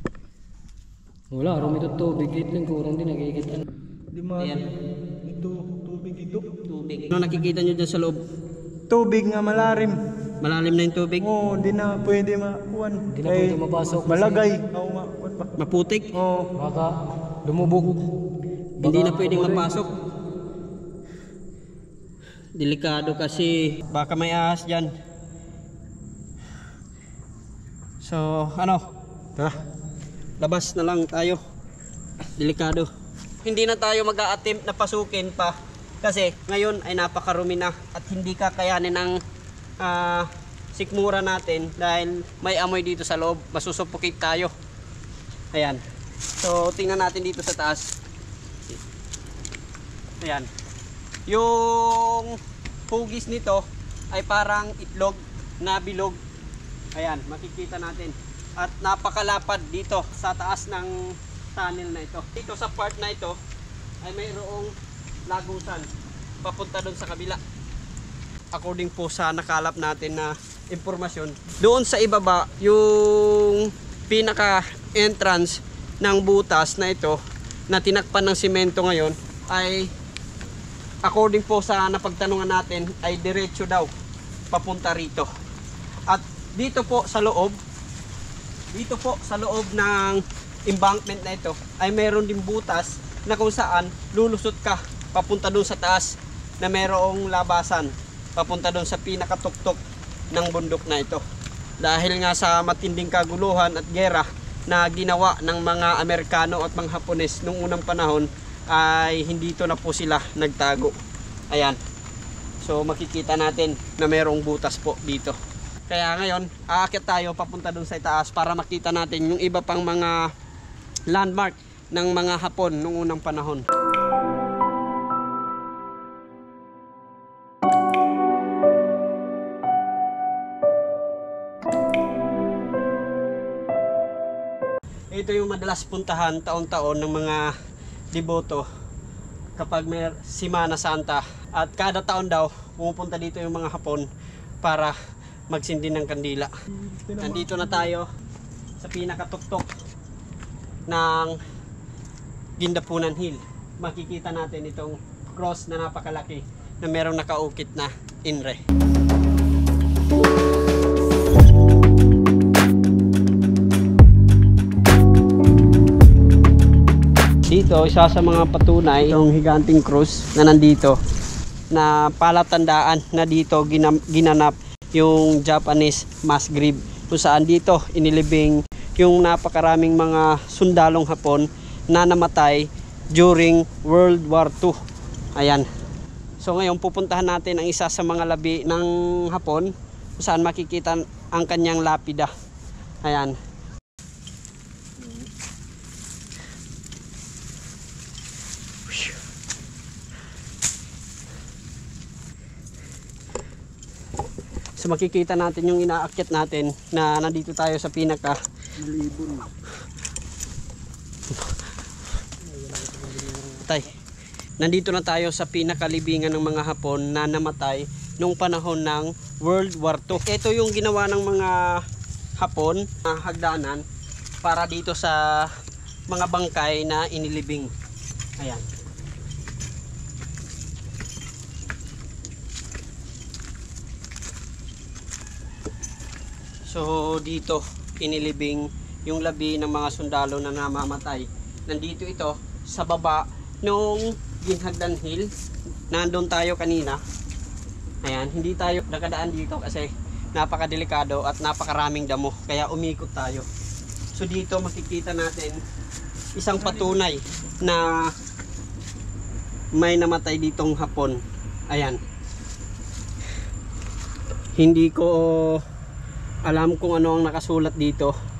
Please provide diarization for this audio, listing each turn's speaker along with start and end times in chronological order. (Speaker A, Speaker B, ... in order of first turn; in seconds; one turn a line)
Speaker A: 1.3-3.6
Speaker B: 4.1-4.6
Speaker C: 4.4-4.7
Speaker B: 5.2-6.7
Speaker C: 6.8-8.2
Speaker B: 8.9-10.0
Speaker C: 10.4-11.3
Speaker B: 11.2-15.5
Speaker A: 13.1-14.6
Speaker C: 15.6-16.1
Speaker B: 16.2-16.5
Speaker A: 16.5-18.1
Speaker A: 18.8-19.8
Speaker C: 18.8-19.9
Speaker C: 22.6-24.9
Speaker C: 28.0-28.8
Speaker C: 30.4-31.4
Speaker C: 32.4-32.9
Speaker C: 33.4-39.2
Speaker C: 39.8-44.5
Speaker C: 45.5-45.8
Speaker C: 46.4-47.9
Speaker C: 50.2-50.5
Speaker C: 51.3-52.4
Speaker C: 52.9-56.2
Speaker C: 56.9-60.9
Speaker C: 61.5-63.4
Speaker C: 64.0-64.7
Speaker C: 65.3-65.9
Speaker C: 66.4-67.4
Speaker C: 68.5-77.2
Speaker C: 77.7-79.9
Speaker C: 81.0-83.9
Speaker C: 84.5-85.3
Speaker C: 86.1-87.6
Speaker C: 88.7-99.8
Speaker C: 100.3-101.2
Speaker C: 101.8-110.9
Speaker C: 111.5-111.8
Speaker C: 112.6-115.3
Speaker C: 115.9-120.2
Speaker C: 121.1-123.6
Speaker C: 135.1-137.5
Speaker C: 138.1-138.6
Speaker C: 139.6-144.1
Speaker C: 144.6-144.9
Speaker C: 145.5-146.5
Speaker B: 146.8-147.7
Speaker C: 147.2-148.1
Speaker C: 148.8-149.7
Speaker C: 150.9-151.4
Speaker C: 152.6-158.6
Speaker C: 167.5-170.9
Speaker C: 171.7-184.7
Speaker C: 185.3-185.7
Speaker C: 186.4-192.3
Speaker C: 193.0-193.3
Speaker C: 204.8-208.4
Speaker B: 209.1-209.4
Speaker A: 212.5-213.7
Speaker C: 213.5-213.9
Speaker C: 214.6-221.8
Speaker C: 222.4-223.8
Speaker C: 224.4-225.5
Speaker C: 226.1-227.7
Speaker C: 228.4-228.6
Speaker C: 236.7-245.3
Speaker C: 245.9-247.0
Speaker C: 248.0-253.5
Speaker C: 254.1-255.6
Speaker C: 256.4-258.1
Speaker C: 259.8-261.2
Speaker C: 261.7-262.0
Speaker C: 264.6-265.6
Speaker C: 266.4-268.1